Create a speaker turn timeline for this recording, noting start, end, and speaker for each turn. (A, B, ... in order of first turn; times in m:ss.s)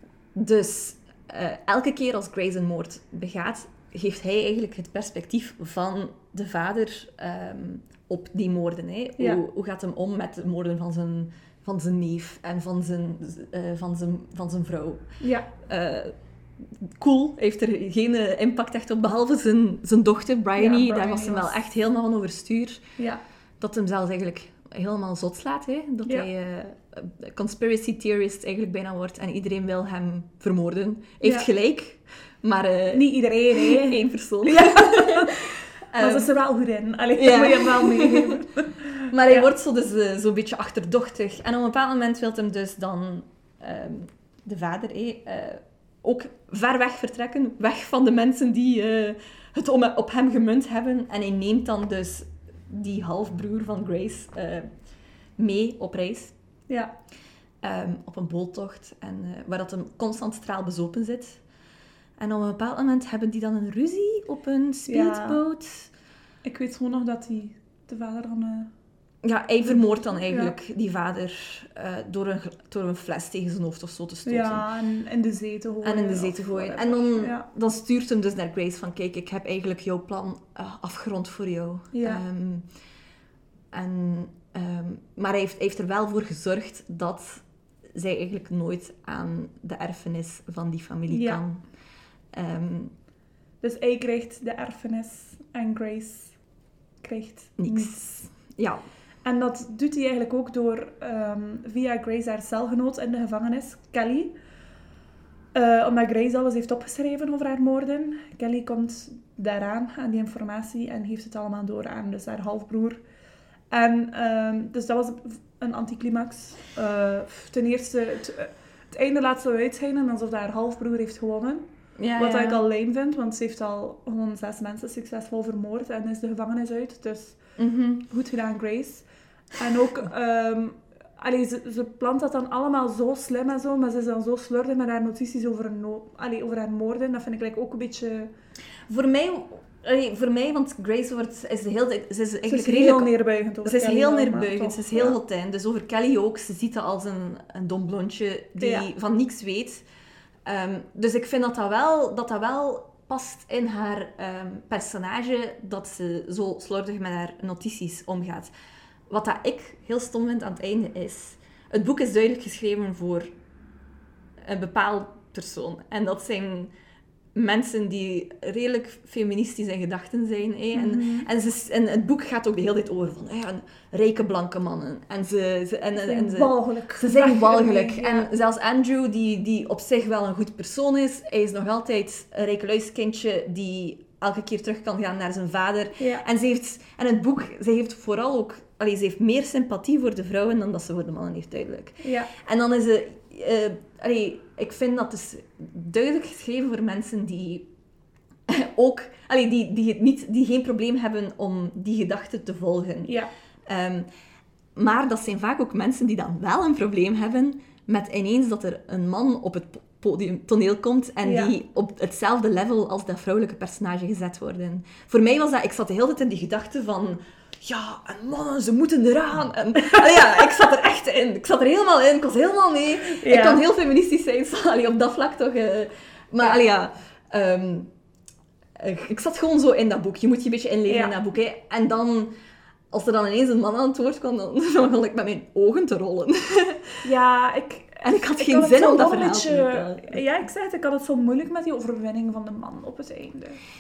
0:00.4-0:15.0 A
0:15.2-0:15.5 B
0:15.6-0:22.8 A
0:20.6-0:21.6 B
0:23.6-0:36.3 A
0:31.2-0:31.5 B
0:32.9-0:39.5 B
0:37.2-0:38.4 A
0:39.0-0:54.7 A
0:55.4-0:56.3 A
0:57.6-1:01.4 A
1:02.2-1:05.9 A
1:04.9-1:05.4 B
1:06.4-1:08.7 B
1:09.2-1:14.7 A
1:09.6-1:10.6 B
1:14.3-1:17.5 B
1:15.8-1:22.7 A
1:21.9-1:22.2 B
1:23.7-1:31.6 A
1:31.1-1:31.4 B
1:32.3-1:32.9 A
1:33.6-1:36.4 B
1:37.0-1:38.0 B
1:37.6-1:38.8 A
1:39.2-1:44.3 B
1:45.5-1:53.0 B
1:53.7-2:07.4 B
2:02.0-2:02.6 A
2:07.6-2:08.0 A
2:08.1-2:18.3 B
2:18.9-2:23.1 A
2:22.4-2:25.2 B
2:23.6-2:29.8 A
2:28.6-2:28.9 B
2:30.4-2:38.5 A
2:39.1-2:43.3 A
2:44.4-2:46.7 A
2:47.4-3:17.7 A
2:50.7-2:51.3 B
2:56.0-2:58.3 B
3:06.0-3:06.3 B
3:12.0-3:12.3 B
3:18.5-3:23.2 A
3:23.7-3:24.1 A
3:24.8-3:47.9 A
3:31.2-3:31.5 B
3:39.8-3:40.5 B
3:43.0-3:43.6 B
3:48.8-3:52.3 A
3:50.9-3:51.1 B
3:52.9-3:57.0 A
3:57.0-4:03.6 B
3:58.0-4:00.2 A